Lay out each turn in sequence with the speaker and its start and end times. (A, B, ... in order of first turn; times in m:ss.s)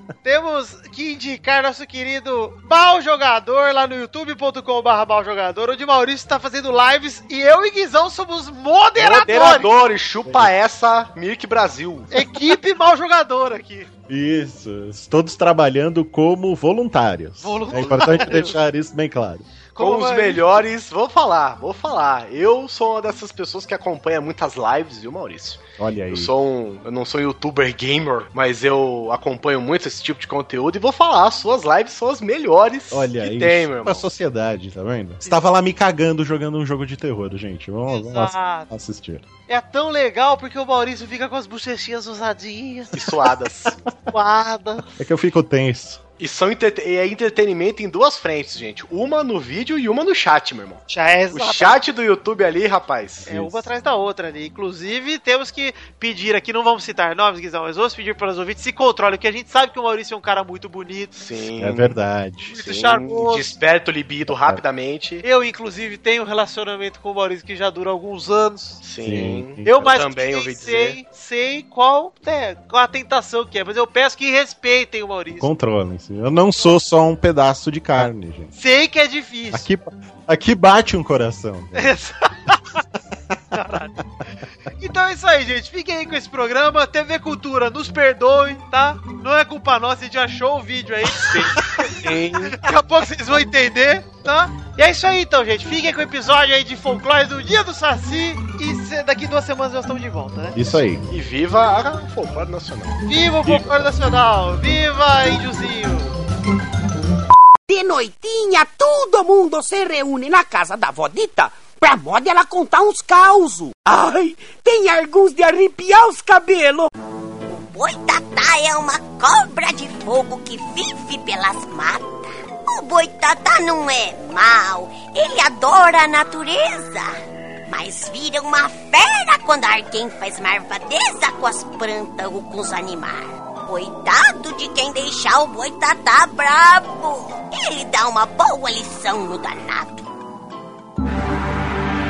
0:00.2-0:09.7 A
0:09.0-0:12.1 B
0:10.2-0:10.5 C
0:12.1-0:13.9 A
0:14.1-0:19.4 C
0:17.4-0:18.6 A
0:17.8-0:18.2 B
0:19.7-0:20.6 A
0:19.8-0:34.1 B
0:25.8-0:26.3 C
0:32.9-0:39.2 C
0:37.9-0:38.7 A
0:39.5-0:43.0 A
0:42.9-0:43.8 B
0:44.1-0:44.9 A
0:45.0-0:46.0 C
0:46.2-0:53.5 B
0:50.9-0:51.8 A
0:53.3-1:01.1 A
1:01.1-1:02.0 B
1:01.6-1:02.5 C
1:02.5-1:03.5 A
1:02.6-1:05.2 B
1:04.3-1:04.6 C
1:05.2-1:08.8 A
1:08.8-1:11.0 B
1:09.0-1:09.7 C
1:09.6-1:15.5 A
1:15.4-1:18.5 C
1:18.5-1:19.7 A
1:19.5-1:21.9 C
1:21.7-1:22.6 A
1:23.5-1:23.9 A
1:24.8-1:40.6 A
1:31.2-1:32.6 B
1:40.5-1:41.0 C
1:41.1-1:43.0 B
1:43.1-1:46.1 A
1:43.4-1:43.8 C
1:47.7-1:56.9 D
1:57.5-2:07.2 E
2:07.7-2:20.1 E